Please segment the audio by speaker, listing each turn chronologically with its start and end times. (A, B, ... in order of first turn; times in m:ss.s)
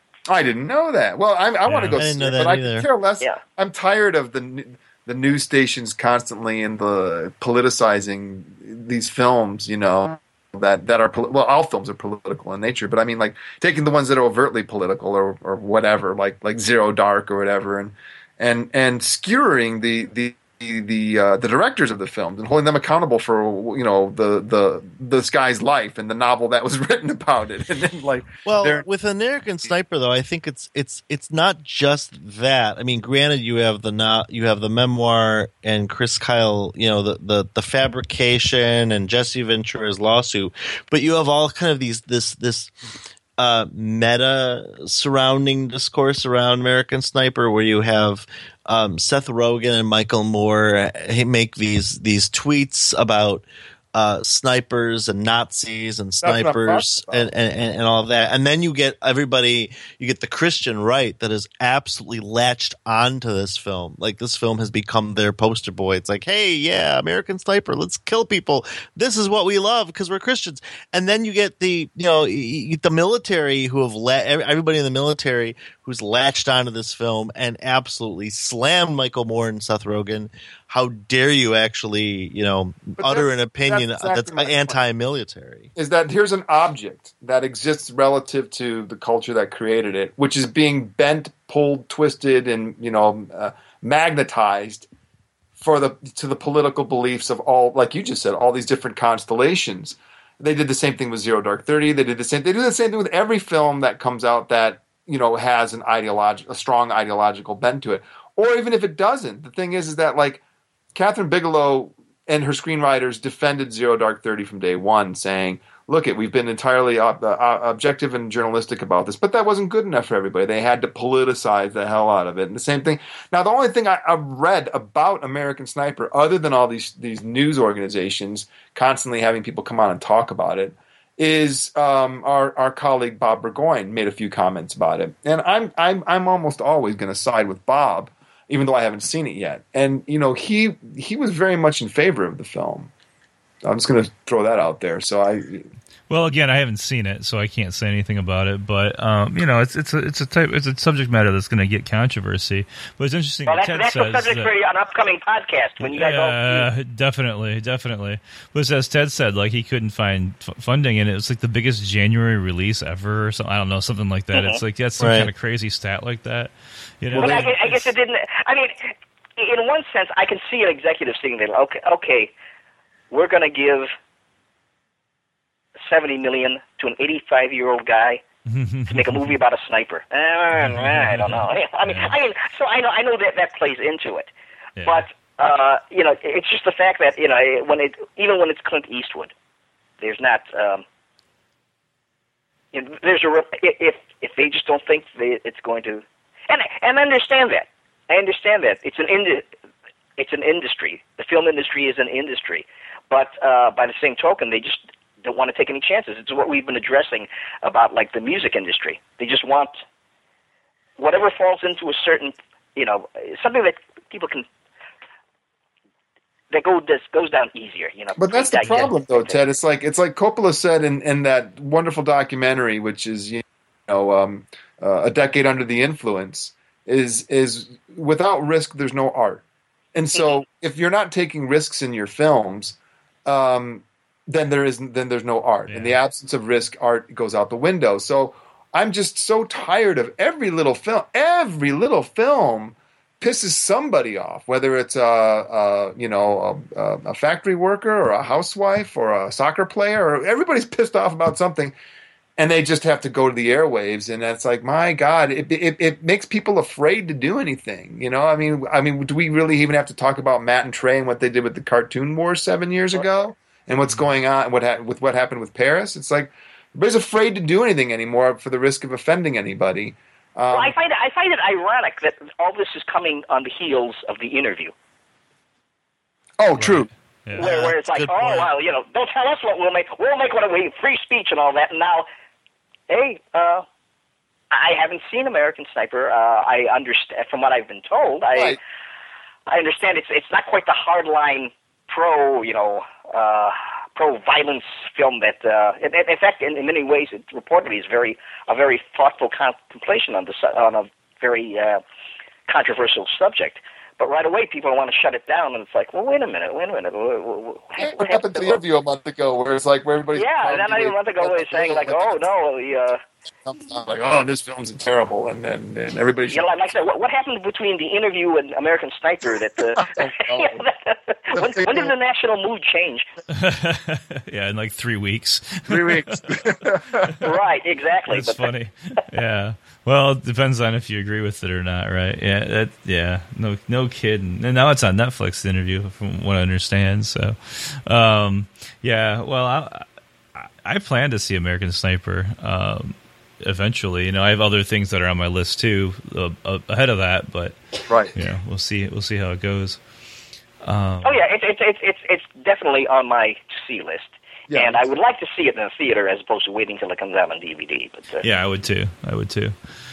0:00.3-0:28.8 A
0:01.6-0:02.0 B
0:02.0-0:02.9 C
0:28.4-0:42.7 C
0:43.4-1:25.7 C
0:56.2-0:57.3 A
1:23.0-1:24.7 A
1:25.7-1:34.9 A
1:35.6-1:50.4 A
1:50.9-2:22.9 A
2:23.6-2:25.7 A
2:26.1-2:34.5 B
2:33.4-2:36.7 D
2:35.8-2:47.9 B
2:44.3-2:44.6 D
2:45.0-2:45.3 C
2:47.1-2:47.5 A
2:47.1-2:52.3 D
2:53.1-2:53.9 D
2:55.8-2:58.2 D
2:58.4-2:59.4 B
2:58.9-3:04.3 D
3:00.5-3:02.2 B
3:04.8-3:05.0 B
3:04.8-3:09.3 D
3:10.0-3:10.8 D
3:12.7-3:19.5 D
3:20.2-3:29.7 D
3:31.0-3:34.4 D
3:36.5-3:39.4 D
3:38.2-3:49.4 A
3:49.9-4:11.7 A
3:55.7-3:56.0 B
4:12.4-4:30.7 A
4:30.5-4:34.7 D
4:36.4-4:36.9 A
4:36.6-4:37.5 B
4:37.4-4:38.5 C
4:37.4-4:42.0 D
4:42.9-4:43.6 D
4:44.5-4:48.6 D
4:49.5-5:01.8 D
5:02.5-5:08.6 D
5:07.8-5:12.1 A
5:10.1-5:13.0 D
5:13.4-5:16.4 A
5:16.3-5:23.1 D
5:19.8-5:20.6 A
5:21.3-5:21.9 A
5:23.3-5:27.2 B
5:25.7-5:27.2 A
5:27.2-5:28.4 D
5:28.1-5:47.6 B
5:47.9-5:48.1 A
5:48.1-5:49.8 B
5:50.6-5:51.2 B
5:51.0-5:58.2 D
5:54.5-5:54.8 A
5:58.2-5:59.6 B